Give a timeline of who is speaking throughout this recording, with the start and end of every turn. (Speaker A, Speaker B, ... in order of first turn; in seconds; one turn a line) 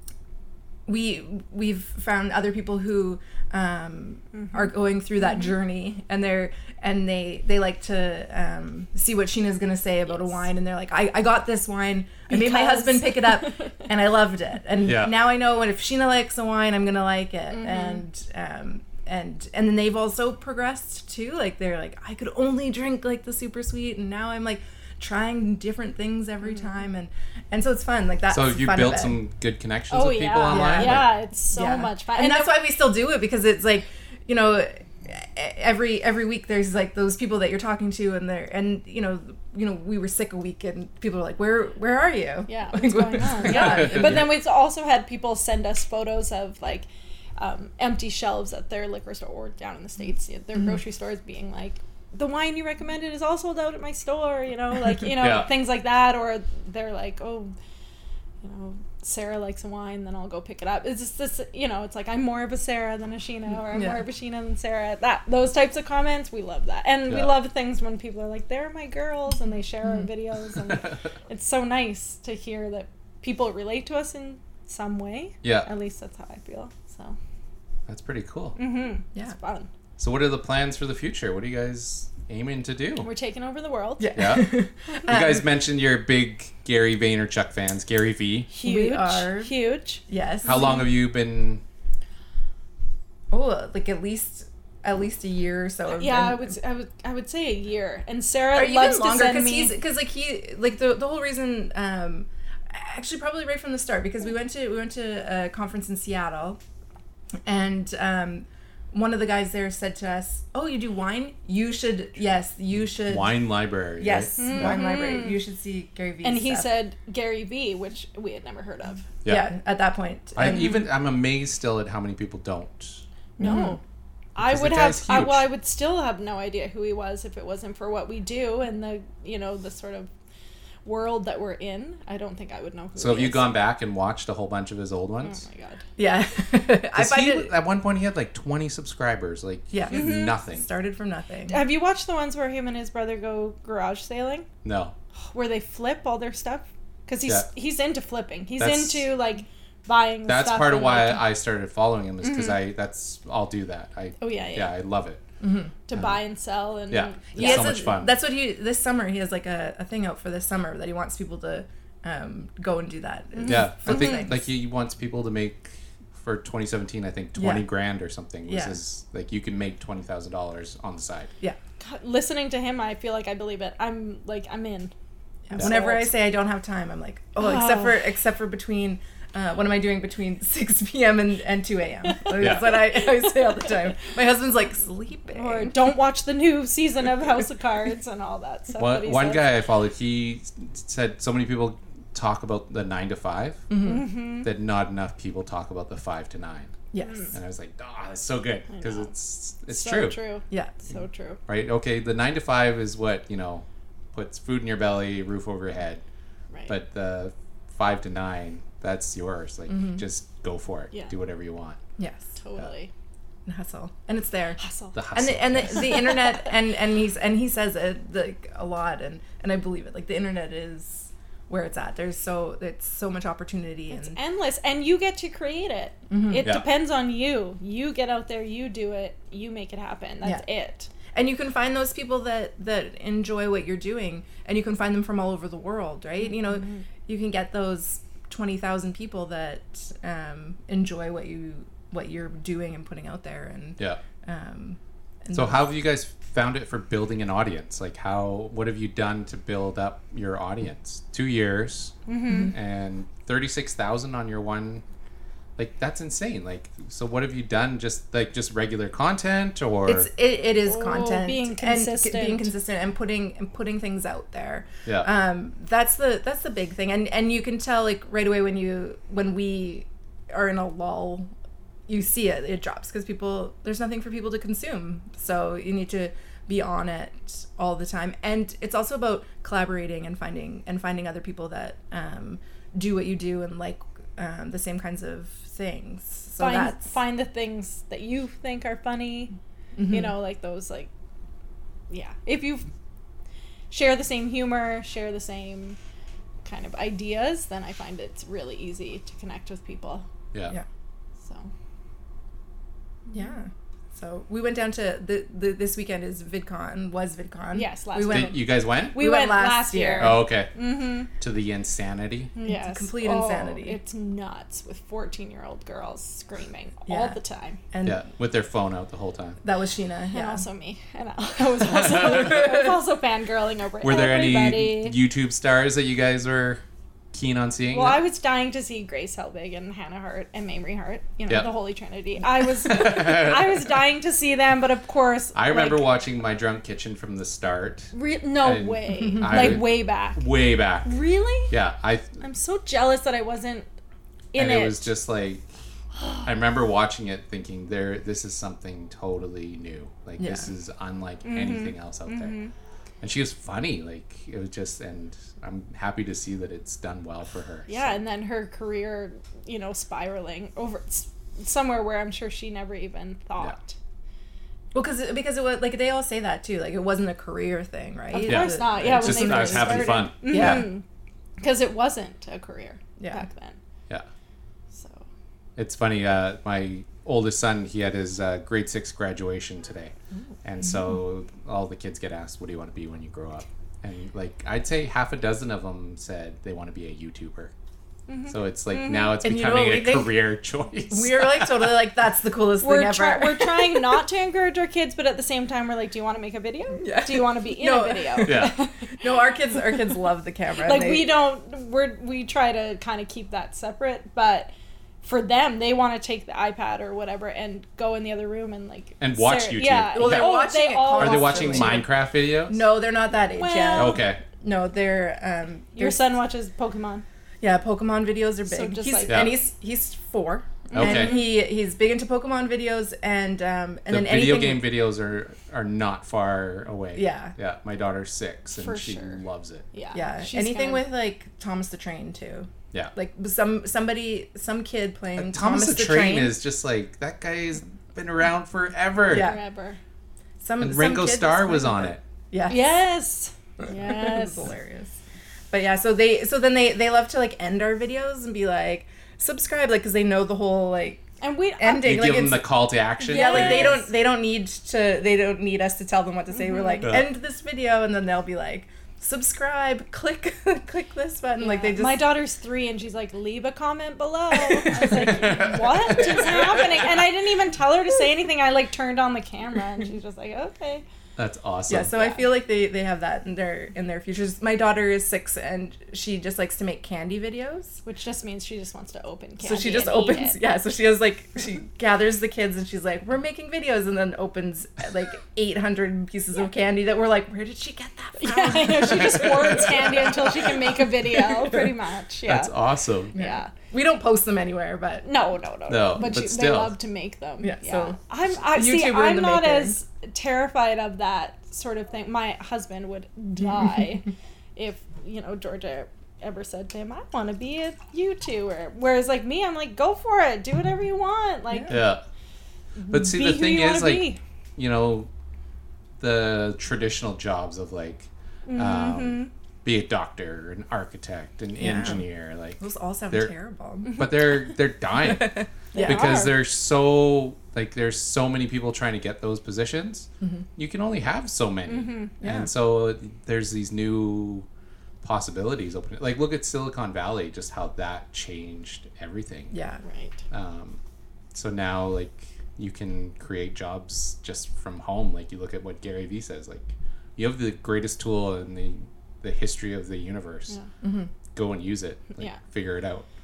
Speaker A: 0.9-29.2
Speaker B: 12.3-13.7
Speaker C: 14.8-15.2
Speaker B: 17.5-18.0
Speaker C: 28.3-31.2
Speaker B: 29.9-32.6
Speaker A: 30.5-44.4
Speaker B: 42.5-57.5
Speaker C: 43.5-44.3
Speaker C: 55.2-55.5
Speaker B: 58.4-77.2
Speaker A: 63.7-64.0
Speaker C: 67.1-67.3
Speaker C: 75.4-75.7
Speaker C: 77.9-78.6
Speaker B: 78.6-79.7
Speaker C: 80.0-83.1
Speaker B: 83.0-84.2
Speaker A: 84.0-85.5
Speaker C: 84.2-88.5
Speaker B: 88.5-90.0
Speaker A: 88.6-89.5
Speaker A: 90.1-90.8
Speaker C: 90.5-91.6
Speaker A: 93.3-96.5
Speaker B: 95.9-99.8
Speaker A: 98.5-106.6
Speaker A: 107.5-113.5
Speaker C: 113.0-114.8
Speaker A: 114.0-116.7
Speaker B: 114.4-115.4
Speaker B: 116.2-119.1
Speaker C: 119.2-119.5
Speaker A: 119.3-120.8
Speaker C: 120.4-123.0
Speaker A: 123.4-123.8
Speaker B: 123.4-123.8
Speaker B: 124.3-130.1
Speaker C: 124.4-125.5
Speaker B: 130.8-133.5
Speaker C: 133.0-135.4
Speaker B: 135.2-135.8
Speaker A: 136.0-137.5
Speaker C: 136.9-140.7
Speaker A: 139.7-141.6
Speaker B: 139.9-140.4
Speaker B: 141.5-144.5
Speaker C: 144.6-144.9
Speaker B: 145.3-151.3
Speaker C: 148.6-149.1
Speaker C: 150.3-155.2
Speaker B: 152.2-152.6
Speaker B: 154.2-154.8
Speaker A: 155.4-155.7
Speaker B: 155.9-157.9
Speaker C: 156.9-158.1
Speaker A: 157.4-164.4
Speaker B: 163.4-164.2
Speaker C: 163.4-171.3
Speaker A: 167.4-167.7
Speaker A: 168.5-168.8
Speaker B: 171.8-174.9
Speaker A: 175.5-185.8
Speaker B: 175.5-176.1
Speaker B: 177.4-178.0
Speaker B: 182.1-183.7
Speaker C: 182.4-182.7
Speaker B: 185.3-189.5
Speaker C: 188.8-196.7
Speaker A: 193.7-194.1
Speaker B: 193.8-194.5
Speaker A: 196.9-197.3
Speaker B: 197.0-197.3
Speaker C: 197.3-200.2
Speaker B: 198.7-201.4
Speaker A: 200.5-200.8
Speaker C: 201.5-206.0
Speaker C: 206.7-211.8
Speaker A: 209.7-210.0
Speaker A: 212.0-212.3
Speaker B: 212.4-212.9
Speaker A: 213.5-214.6
Speaker B: 214.6-214.9
Speaker C: 214.9-216.2
Speaker A: 215.1-224.2
Speaker B: 223.9-230.9
Speaker A: 226.1-226.6
Speaker A: 231.1-245.7
Speaker B: 236.4-236.8
Speaker C: 245.3-252.0
Speaker B: 252.1-252.5
Speaker A: 252.3-252.5
Speaker C: 252.5-254.8
Speaker C: 255.6-260.1
Speaker A: 259.9-271.3
Speaker B: 260.6-262.5
Speaker A: 271.9-286.8
Speaker B: 286.4-289.3
Speaker A: 289.8-290.1
Speaker B: 289.9-290.9
Speaker B: 291.9-292.7
Speaker B: 293.7-295.8
Speaker B: 296.4-300.1
Speaker B: 301.2-301.5
Speaker A: 303.1-310.2
Speaker B: 307.5-311.1
Speaker C: 308.1-309.0
Speaker C: 310.0-310.5
Speaker C: 311.1-312.3
Speaker B: 312.4-317.6
Speaker A: 312.4-313.8
Speaker A: 316.9-317.2
Speaker A: 317.7-318.0
Speaker C: 317.8-319.4
Speaker A: 319.4-320.4
Speaker B: 320.1-325.0
Speaker C: 321.7-322.2
Speaker C: 323.8-326.6
Speaker C: 327.1-328.0
Speaker B: 327.7-335.9
Speaker C: 332.6-333.6
Speaker C: 335.3-342.2
Speaker B: 337.9-340.3
Speaker A: 339.2-339.6
Speaker B: 340.8-341.5
Speaker B: 342.2-343.7
Speaker B: 344.3-344.9
Speaker C: 344.4-345.4
Speaker C: 346.2-352.4
Speaker A: 350.2-350.5
Speaker B: 351.2-352.5
Speaker C: 353.0-358.0
Speaker B: 357.7-363.8
Speaker A: 364.7-370.7
Speaker B: 368.1-370.8
Speaker C: 368.3-370.7
Speaker B: 371.4-373.6
Speaker A: 373.0-373.2
Speaker B: 374.7-375.1
Speaker C: 375.6-379.9
Speaker C: 380.4-387.5
Speaker B: 388.1-389.2
Speaker C: 388.3-391.8
Speaker A: 389.2-390.3
Speaker A: 390.9-394.0
Speaker B: 392.6-399.3
Speaker A: 396.8-401.2
Speaker C: 398.2-398.6
Speaker B: 400.6-404.5
Speaker B: 405.0-411.9
Speaker C: 409.0-410.4
Speaker A: 409.9-411.9
Speaker C: 411.0-412.6
Speaker A: 412.5-416.1
Speaker B: 413.3-414.1
Speaker C: 413.7-414.2
Speaker B: 415.8-417.1
Speaker A: 417.4-424.7
Speaker B: 418.5-419.3
Speaker C: 419.1-419.4
Speaker B: 420.7-421.3
Speaker C: 420.7-421.2
Speaker C: 423.9-429.6
Speaker A: 427.0-427.4
Speaker B: 428.6-429.2
Speaker B: 429.7-430.9
Speaker A: 429.9-436.4
Speaker C: 435.2-439.3
Speaker A: 439.1-439.4
Speaker B: 439.1-439.8
Speaker A: 440.4-442.8
Speaker C: 440.6-442.0
Speaker B: 442.5-444.5
Speaker A: 443.6-444.9
Speaker A: 445.5-451.1
Speaker B: 451.2-452.2
Speaker A: 451.6-462.1
Speaker C: 451.8-453.8
Speaker B: 453.0-453.9
Speaker B: 456.4-456.9
Speaker C: 456.8-457.1
Speaker B: 461.4-470.8
Speaker A: 464.3-465.4
Speaker C: 464.9-466.8
Speaker C: 471.2-472.0
Speaker A: 471.7-477.8
Speaker B: 477.9-480.4
Speaker A: 479.4-491.7
Speaker B: 488.2-492.5
Speaker C: 489.1-489.9
Speaker C: 492.3-493.1
Speaker B: 493.1-493.5
Speaker A: 493.1-495.1
Speaker B: 495.1-511.9
Speaker C: 495.7-496.7
Speaker A: 497.4-498.0
Speaker A: 498.5-499.8
Speaker C: 511.7-512.0
Speaker B: 512.8-514.2
Speaker C: 512.9-515.1
Speaker C: 516.0-523.3
Speaker B: 518.5-519.3
Speaker A: 521.6-524.0
Speaker B: 523.9-524.3
Speaker C: 523.9-534.5
Speaker A: 525.0-526.3
Speaker B: 525.7-526.4
Speaker B: 531.7-532.1
Speaker A: 532.2-532.5
Speaker C: 535.0-539.6
Speaker A: 539.5-539.8
Speaker B: 539.8-540.2
Speaker C: 540.3-540.8
Speaker C: 541.3-550.6
Speaker A: 550.8-551.1
Speaker C: 551.3-553.1